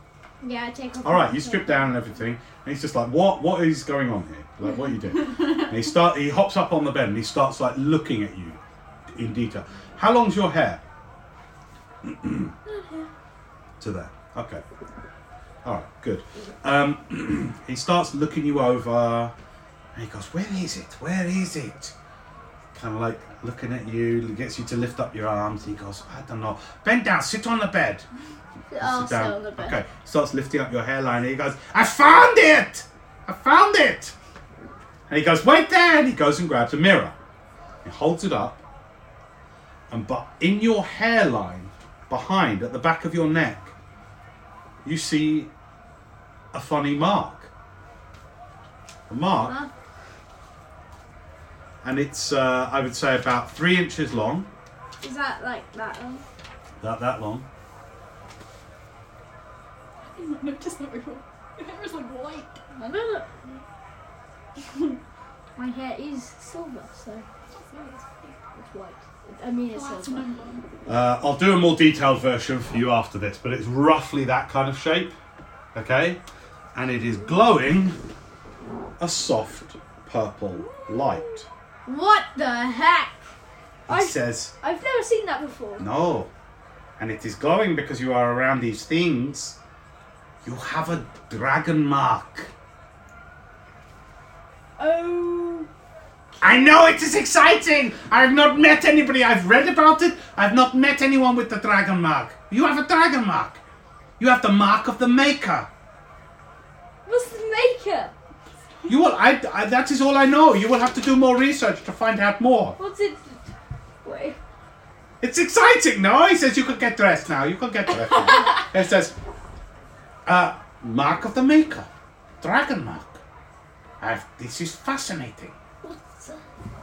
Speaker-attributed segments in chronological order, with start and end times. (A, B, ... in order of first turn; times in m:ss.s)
0:00.4-0:02.0 A
0:01.0-0:08.6 B
0:09.1-0:10.8 B
0:12.0-0:12.5 B
0:12.6-0:13.1 A
0:13.8-0:14.6 B
0:15.6-0:19.3 B
0:19.9-0:21.9 B
0:22.7-0:28.0 B
0:28.7-0:29.8 A
0:28.8-0:34.1 B
0:35.1-0:37.1 B
0:37.8-0:38.6 B
0:39.9-0:43.7 B
0:44.8-0:45.5 B
0:46.5-0:47.5 B
0:49.1-0:49.6 B
0:49.4-0:49.7 A
0:51.8-0:54.5 B
0:55.0-0:56.2 A
0:56.8-0:57.4 B
1:00.0-1:02.6 C
1:02.7-1:03.6 A
1:05.6-1:07.2 A
1:07.6-1:08.4 C
1:08.5-1:10.2 A
1:09.7-1:10.6 C
1:10.9-1:15.1 B
1:15.7-1:16.2 B
1:16.7-1:18.0 B
1:19.0-1:21.5 B
1:20.6-1:21.3 A
1:21.8-1:23.1 A
1:23.9-1:24.5 B
1:23.9-1:25.8 A
1:25.8-1:26.3 B
1:27.0-1:29.6 B
1:30.4-1:32.5 B
1:34.8-1:35.7 A
1:36.4-1:36.8 A
1:36.4-1:43.6 B
1:44.2-1:45.7 B
1:47.0-1:48.1 A
1:48.9-1:52.8 B
1:52.8-1:53.4 A
1:54.0-1:54.4 A
1:55.2-1:59.2 B
2:00.2-2:01.9 B
2:02.4-2:03.2 B
2:04.0-2:05.6 B
2:05.8-2:06.4 A